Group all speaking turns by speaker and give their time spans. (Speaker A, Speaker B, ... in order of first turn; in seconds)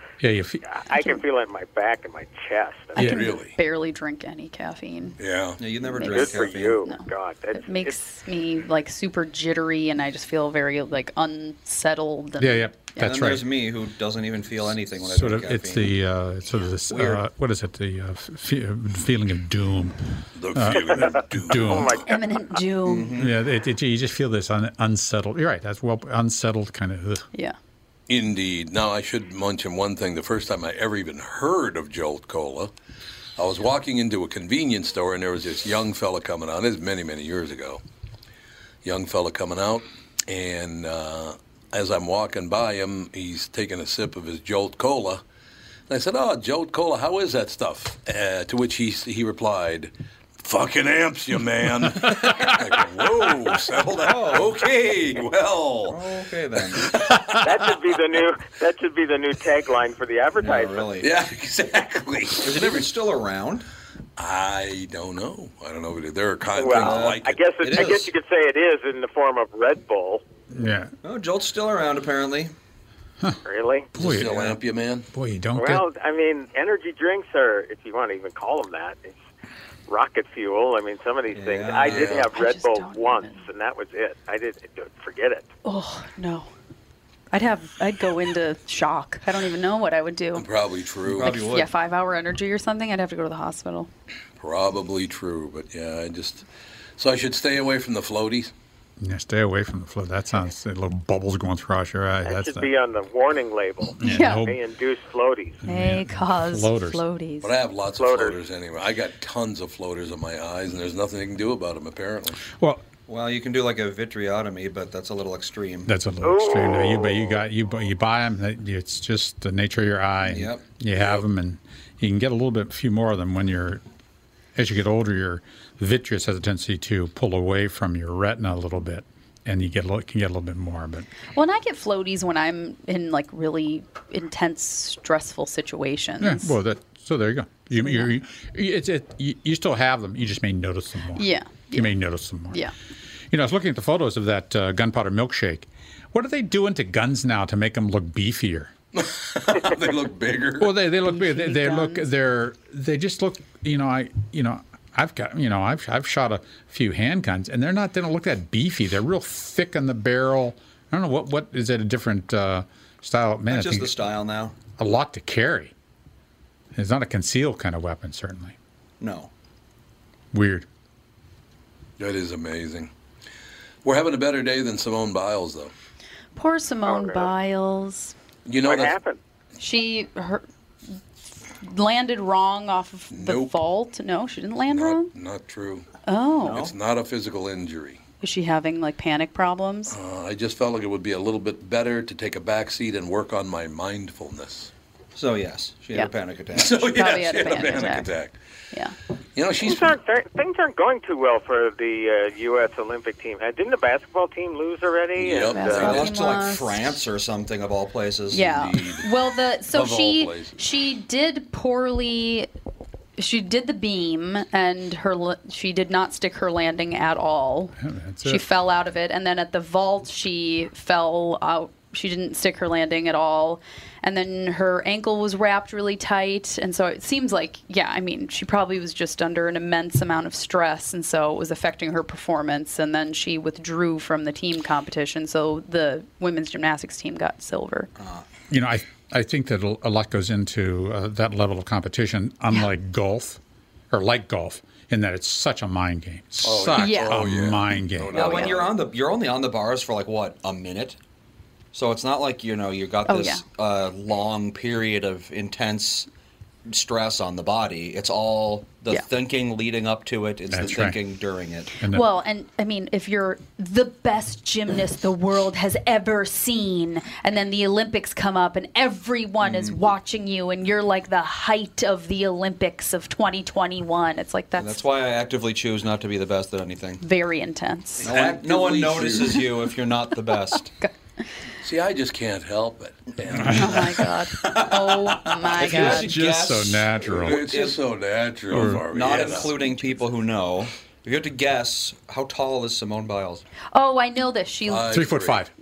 Speaker A: 0.2-0.6, 3.0-3.3, 12.4-13.5, 15.0-20.0, 20.5-22.0, 23.2-27.3, 70.5-70.9, 73.9-74.4, 75.1-75.8, 99.0-102.7, 104.0-104.6, 105.6-107.0, 112.5-112.8, 115.9-123.8, 124.5-131.1, 136.2-142.6, 143.3-148.7, 150.6-163.9, 164.8-165.7, 166.8-168.6, 170.3-170.7, 217.8-218.4, 238.5-243.4, 243.9-248.4, 260.5-261.0, 261.8-262.1, 283.3-283.9, 285.6-287.6, 288.5-289.5, 294.9-295.5
Speaker B: 0.7-3.1, 6.1-8.0, 20.8-22.1, 57.4-60.9, 66.5-70.2, 73.5-73.9, 75.6-79.2, 79.9-85.5, 102.2-105.6, 108.0-108.4, 116.2-117.3, 176.8-177.3, 178.6-179.2, 199.6-206.0
Speaker C: 0.9-1.2, 3.0-5.2, 5.8-13.1, 22.0-23.2, 82.1-83.5, 85.6-86.5, 87.3-90.5, 91.2-93.9, 104.0-104.5, 105.6-107.5, 131.3-136.6, 137.8-138.1, 141.2-142.0, 151.0-152.1, 176.3-178.2, 179.6-180.4, 181.6-185.1, 186.1-186.6, 188.2-189.9, 196.9-198.1, 205.5-206.9, 208.3-212.5, 213.2-237.9, 246.8-247.2, 248.1-248.5, 253.1-253.4, 261.9-274.8, 277.0-278.1, 283.5-286.1, 293.7-295.0
Speaker D: 3.0-3.5, 5.2-5.6, 20.4-22.0, 28.1-32.7, 33.4-37.8, 38.8-45.2, 45.9-49.9, 50.4-56.0, 56.8-57.4, 61.0-62.9, 64.2-67.8, 74.0-75.1, 90.3-91.3, 94.4-96.4, 97.0-98.5, 107.4-112.4, 121.0-121.2, 148.9-150.7, 172.0-172.9, 173.8-175.7, 178.5-179.0, 183.1-183.6, 184.7-185.9, 186.4-188.0, 189.9-194.7, 196.5-198.3, 199.4-199.9, 205.2-206.1, 208.4-209.1, 209.7-210.6, 246.4-248.8, 278.0-279.5, 281.6-284.1, 287.1-289.6, 294.7-295.4
Speaker E: 5.6-6.8, 13.0-16.0, 16.9-17.2, 22.8-23.4, 54.0-54.6, 55.9-56.9, 60.4-61.1, 62.4-63.6, 66.7-68.1, 71.0-72.5, 74.0-74.6, 81.3-82.3, 91.1-91.7, 113.1-115.9, 120.2-120.7, 163.5-164.6, 169.0-169.3, 186.4-186.7, 195.2-197.0, 205.7-208.5, 238.0-238.2, 248.1-251.0, 251.7-256.1, 256.7-261.7, 269.4-269.8, 274.6-277.0, 278.0-280.7, 285.6-287.8, 288.8-293.4